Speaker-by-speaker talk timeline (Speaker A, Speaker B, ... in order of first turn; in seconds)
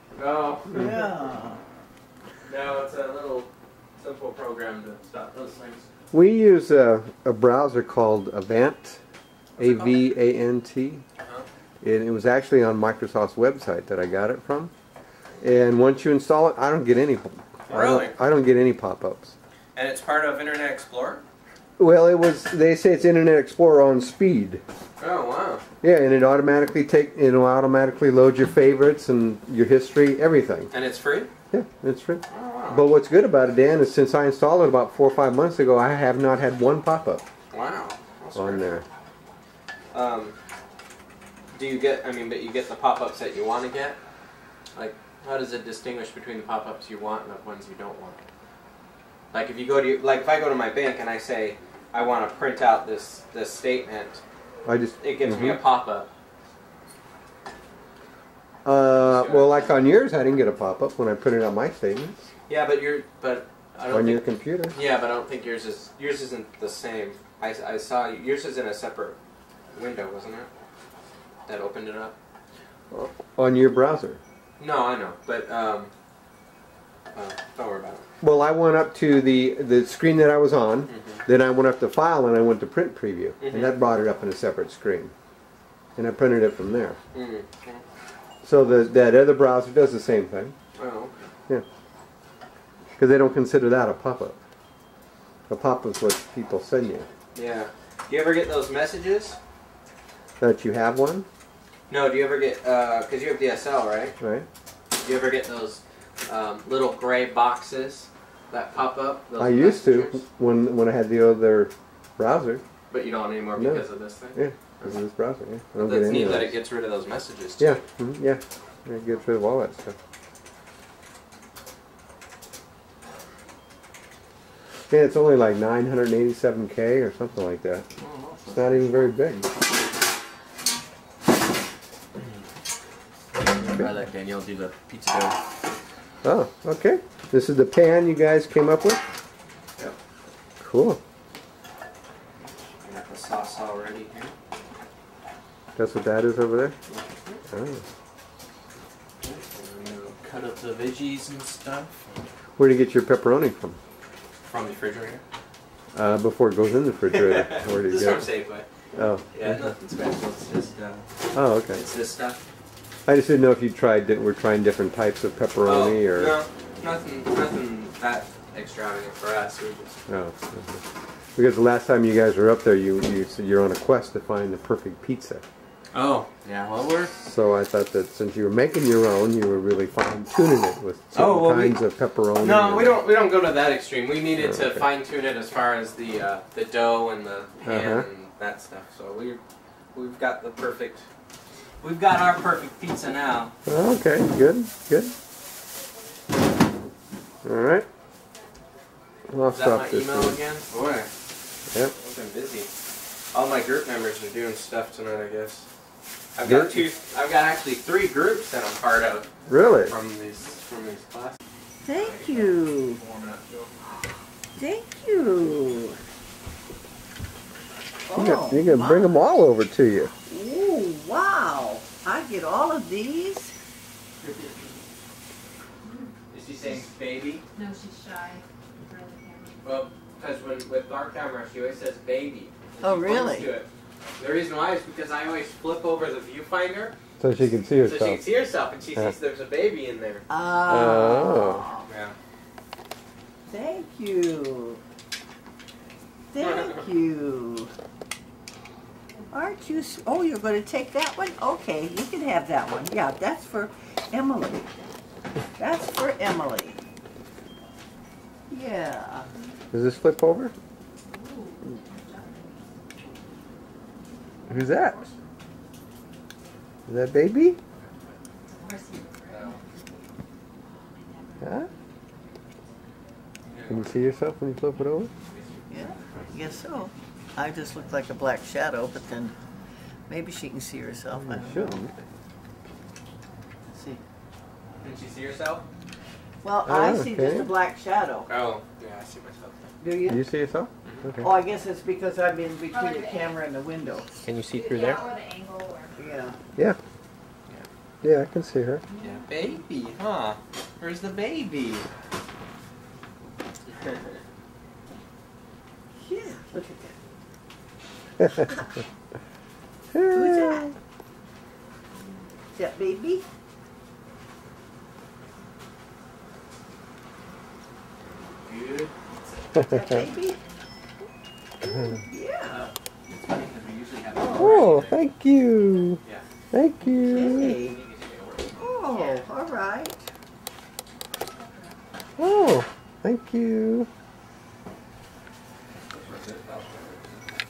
Speaker A: 0.1-1.0, 2.5-5.9, 9.6-10.1, 11.2-11.4, 17.7-18.1, 19.7-21.2, 25.0-25.6, 30.7-31.3, 32.3-32.9, 37.5-38.8, 39.9-40.4, 41.5-44.0, 44.7-48.2, 49.3-54.2, 55.0-56.1, 59.0-59.7, 62.5-69.2, 69.7-70.5, 71.5-72.2, 74.6-75.9, 77.1-78.0, 80.9-81.2, 83.4-83.8, 87.1-87.8, 90.7-91.2, 97.3-99.4, 101.9-104.1, 105.0-110.2, 112.9-115.0, 115.8-117.8, 128.0-129.1, 133.4-135.4, 142.8-144.3, 146.9-147.4, 149.2-152.2, 154.5-155.2, 157.1-158.7, 159.3-161.1, 161.7-162.4, 165.6-170.0, 175.9-177.1, 181.1-181.8, 182.4-189.4, 189.9-191.1, 191.8-193.5, 199.5-201.1, 202.0-202.7, 203.3-205.7, 206.3-211.4, 211.9-213.7, 224.2-224.7, 226.3-227.4, 229.6-236.9, 237.8-240.2, 241.8-242.1, 246.4-246.7, 267.7-268.2, 269.3-269.6, 273.5-273.9, 275.2-276.6, 284.8-285.6, 288.3-289.7, 294.2-295.0, 299.0-301.9, 318.4-319.5, 322.4-325.0, 327.3-328.6, 335.9-337.1
Speaker B: 0.7-1.6, 211.8-213.0, 214.6-216.0, 218.1-219.1, 220.3-223.5, 232.8-233.5, 240.3-241.8, 243.5-244.8, 246.3-247.7, 249.3-254.7, 255.6-256.8, 258.5-259.3, 275.7-279.3, 280.1-281.8, 283.7-284.0, 286.4-288.3, 289.8-290.2, 291.2-294.1, 296.0-296.4, 306.0-306.9, 310.1-310.7, 312.5-313.2, 319.7-320.4, 321.6-322.6, 324.1-324.9, 326.8-327.8, 328.6-330.1
Speaker C: 6.1-9.0, 9.6-11.0, 11.8-14.7, 15.4-19.4, 21.8-24.6, 25.8-30.7, 31.5-37.2, 38.3-38.8, 54.6-55.6, 58.6-62.3, 63.9-64.8, 72.9-74.2, 78.2-85.1, 86.0-87.0, 88.4-90.5, 93.0-94.4, 95.5-97.1, 100.4-101.3, 104.2-104.5, 109.4-112.6, 113.5-116.6, 117.6-120.0, 124.9-127.9, 128.5-129.5, 136.2-139.0, 140.6-141.0, 145.8-146.8, 147.5-147.8, 152.6-153.8, 155.9-158.3, 158.9-159.7, 161.3-161.8, 163.1-166.4, 170.1-170.8, 171.3-175.4, 177.2-183.0, 184.3-184.9, 187.6-188.1, 193.7-195.1, 197.4-197.9, 199.3-200.4, 206.4-206.8, 209.5-209.9, 218.1-220.1, 237.2-238.2, 240.7-241.6, 259.7-260.5, 264.5-264.9, 266.9-267.6, 271.4-271.7, 273.7-275.1, 281.1-281.9, 286.6-287.5, 290.1-291.3, 298.0-298.8, 309.9-310.7, 319.6-319.9, 324.4-326.0, 326.5-327.6, 332.2-333.9
Speaker D: 225.8-226.1, 227.5-229.6, 261.1-262.6, 264.5-265.2, 268.5-269.8, 270.6-271.7, 292.7-293.4, 294.5-295.9, 298.9-299.5, 319.7-320.0, 328.9-329.3, 331.3-331.8